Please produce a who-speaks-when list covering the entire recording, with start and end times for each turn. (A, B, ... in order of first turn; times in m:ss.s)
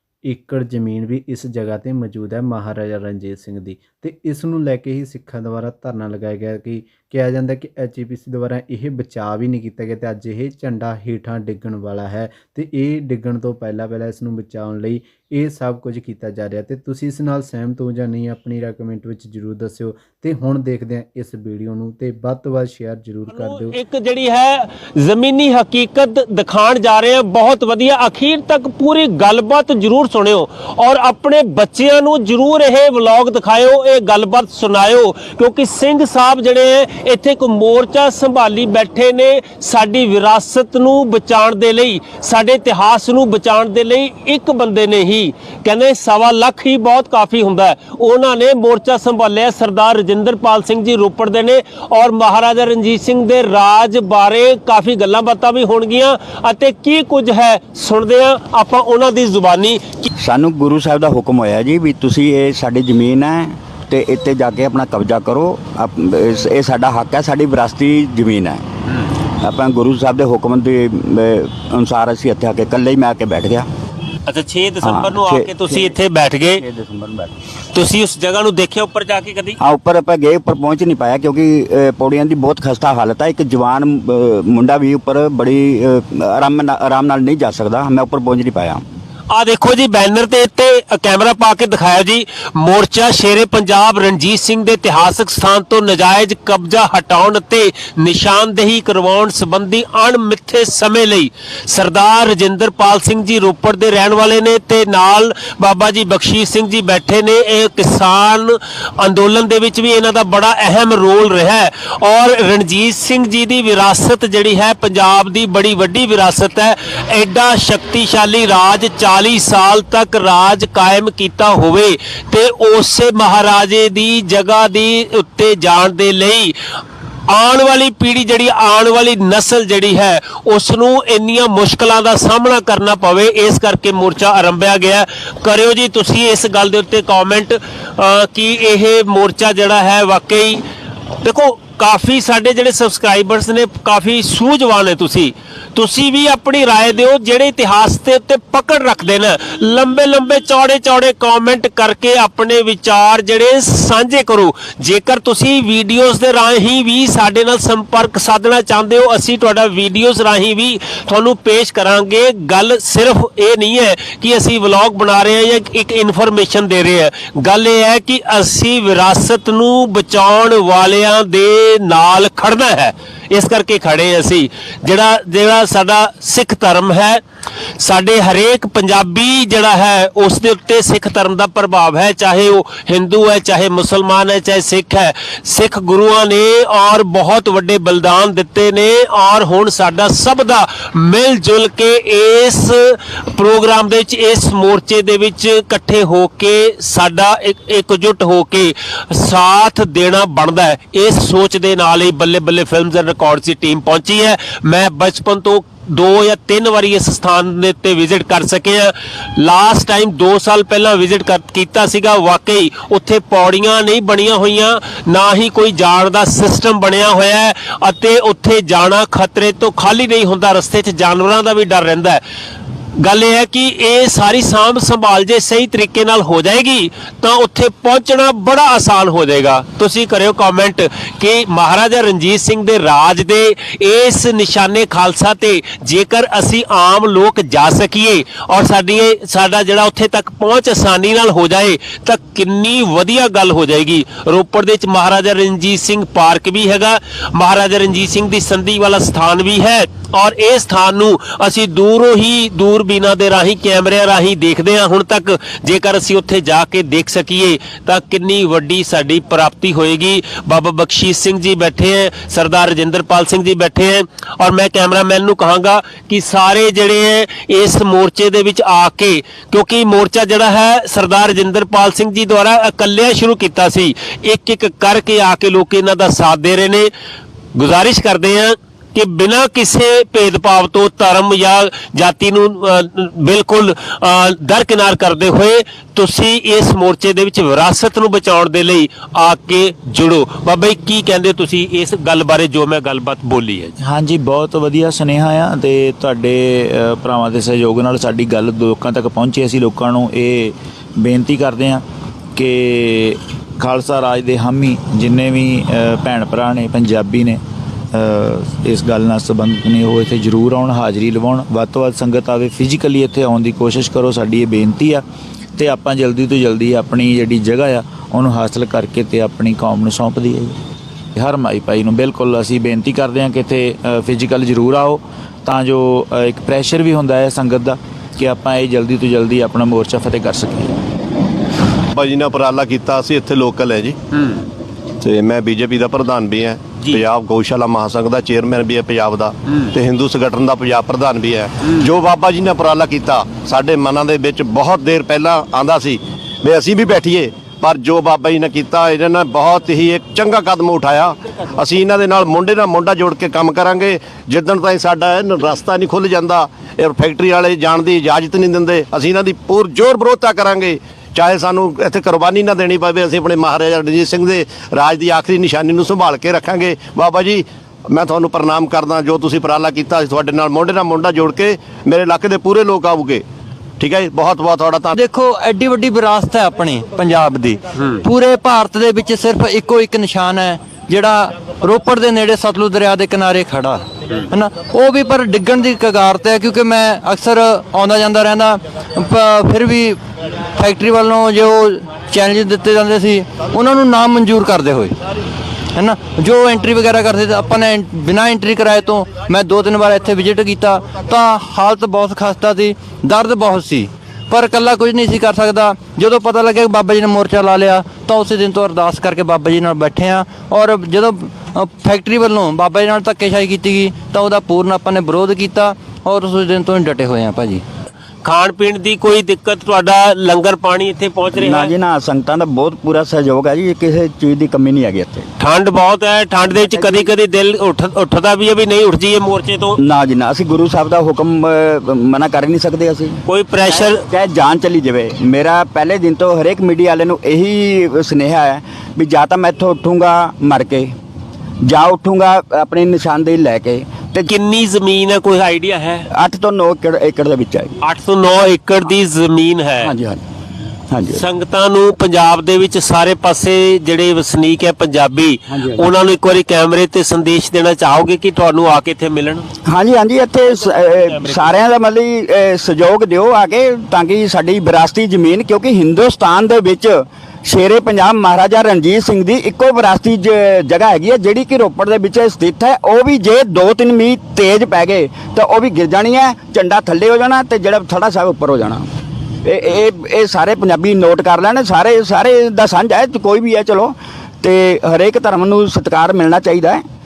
0:00.2-0:23.8 A
0:23.3-1:00.1 B
1:00.2-1:08.6 C
1:09.4-1:13.7 C
1:14.3-1:16.6 B
1:14.8-1:16.0 C
1:16.6-1:17.3 C
1:17.7-1:19.6 B
1:19.6-1:28.8 C
1:29.3-2:06.5 B
2:07.3-2:20.6 B
2:21.2-2:57.2 B
2:57.8-3:42.2 B
3:43.0-4:36.9 B
4:37.6-4:53.7 B
4:53.8-5:01.8 D
5:02.3-5:07.4 D
5:07.9-5:15.0 D
5:15.6-5:20.6 D
5:21.2-5:30.7 D
5:31.9-5:34.0 E
5:34.1-5:34.4 B
5:35.0-6:13.2 E
6:13.8-6:14.9 E
6:14.9-6:30.0 F
6:30.6-6:35.0 F
6:35.7-6:57.6 F
6:58.2-7:01.7 B
7:01.3-7:05.3 C
7:05.4-7:09.8 B
7:06.6-7:07.1 C
7:09.8-7:20.9 C
7:13.2-7:14.0 B
7:21.6-7:24.3 C
7:24.2-7:26.1 B
7:26.1-7:27.8 C
7:27.8-7:29.9 B
7:29.8-7:30.2 C
7:30.9-7:31.2 C
7:31.1-7:39.4 B
7:35.5-7:35.8 C
7:39.7-7:58.8 C
7:40.6-7:41.5 B
7:59.4-8:06.8 C